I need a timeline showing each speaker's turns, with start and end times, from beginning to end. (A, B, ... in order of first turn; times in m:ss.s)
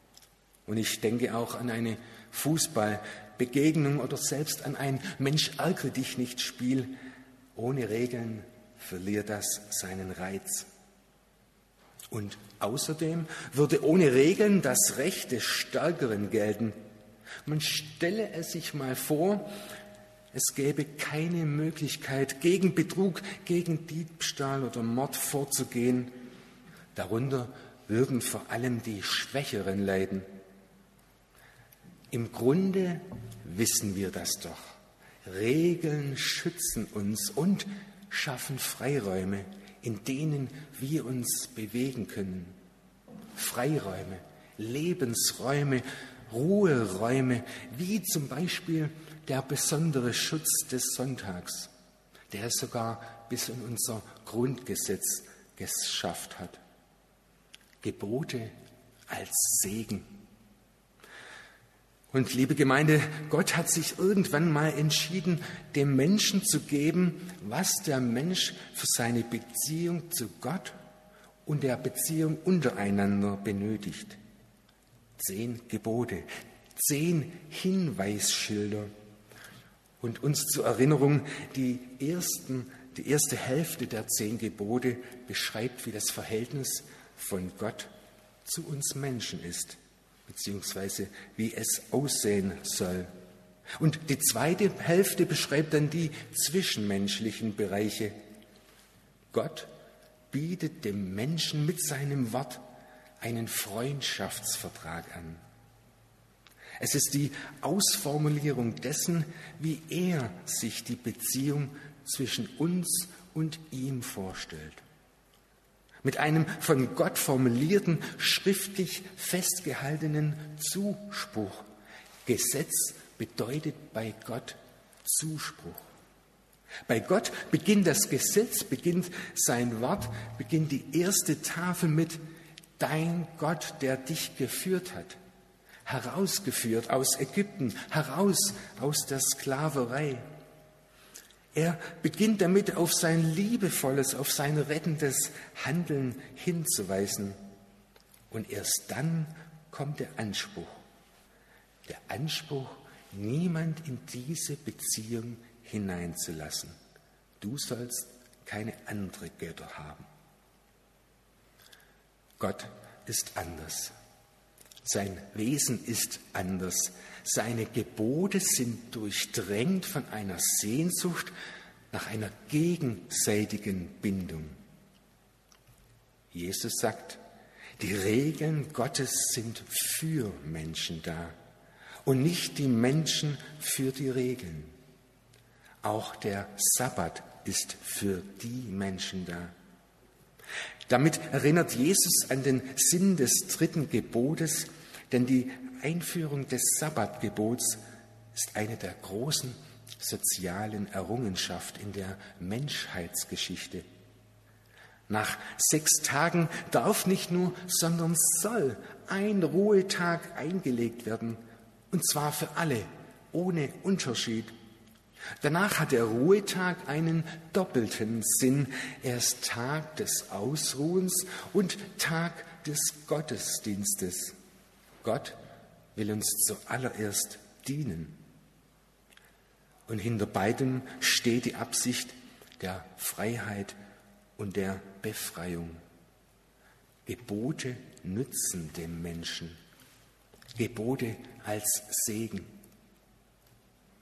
0:00.6-0:06.9 A
0:07.6-0:10.7 A
0:12.1-0:16.8 A
0:17.4-0:19.5 A
0:20.3-0:26.1 A
0:26.9-0:30.2 A
0:32.1-0:42.6 A
0:43.4-0:51.7 A
0:52.3-0:56.6 A
0:57.8-0:58.5 A
0:59.1-1:00.1 A
1:02.1-1:10.8 A
1:11.4-1:14.2 A
1:15.2-1:18.9 A
1:20.0-1:27.9 A
1:28.4-1:33.1 A
1:33.8-1:38.2 A
1:39.3-1:39.7 A
1:40.3-1:42.6 A
1:43.2-1:45.4 A
1:46.8-1:54.8 A
1:56.0-2:01.6 A
2:02.2-2:05.8 A
2:06.9-2:12.2 A
2:12.8-2:15.2 A
2:15.8-2:20.3 A
2:21.5-2:27.4 A
2:28.3-2:30.8 A
2:31.9-2:36.7 A
2:37.4-2:40.0 A
2:42.4-2:43.9 A
2:44.8-2:51.3 A
2:51.9-2:54.6 A
2:56.3-2:57.2 A
2:57.8-3:01.4 A
3:02.0-3:04.7 A
3:05.8-3:09.5 A
3:10.9-3:17.8 A
3:18.3-3:23.8 A
3:25.1-3:34.5 A
3:35.4-3:44.4 A
3:45.0-3:45.4 A
3:45.9-3:48.2 A
3:49.9-3:53.8 A
3:54.4-3:55.8 A
3:57.0-3:59.6 A
4:00.6-4:02.5 A